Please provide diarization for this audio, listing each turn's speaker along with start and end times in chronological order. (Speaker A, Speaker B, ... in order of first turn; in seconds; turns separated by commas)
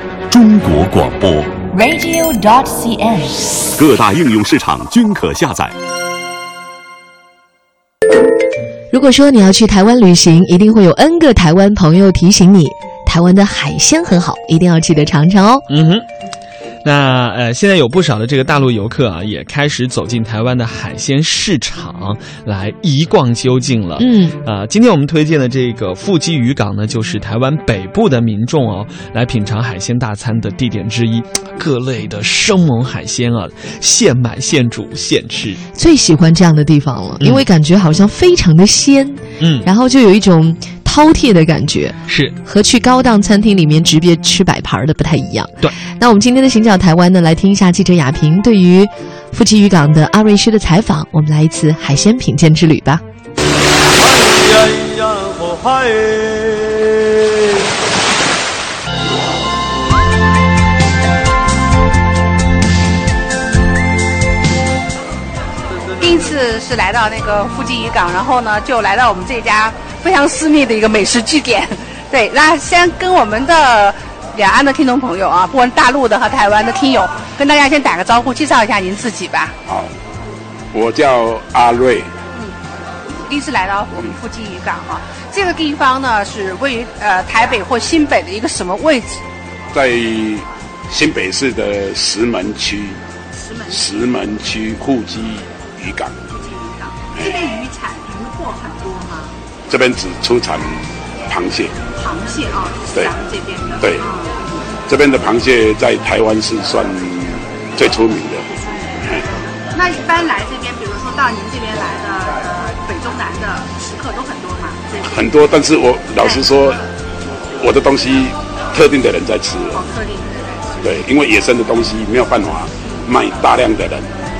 Speaker A: 0.3-1.6, Speaker B: 1.7-3.6, Speaker A: 3.8-5.7, Speaker C: 8.9-15.7, Speaker D: 15.7-16.0, Speaker D: 16.8-35.6, Speaker C: 24.0-24.4, Speaker C: 35.7-53.0, Speaker D: 39.4-39.7, Speaker D: 42.1-42.4, Speaker E: 54.0-56.8, Speaker F: 66.0-79.5, Speaker G: 80.7-82.1, Speaker F: 83.2-89.2, Speaker G: 89.7-93.0, Speaker F: 93.3-93.9, Speaker G: 93.7-96.2, Speaker F: 96.3-99.3, Speaker G: 99.7-101.8, Speaker F: 102.0-104.6, Speaker G: 103.8-104.0, Speaker G: 104.9-108.5, Speaker F: 108.6-108.9, Speaker G: 109.0-109.2, Speaker F: 109.6-115.2, Speaker G: 115.0-116.8, Speaker G: 117.6-119.8, Speaker F: 119.7-120.9, Speaker G: 120.8-124.1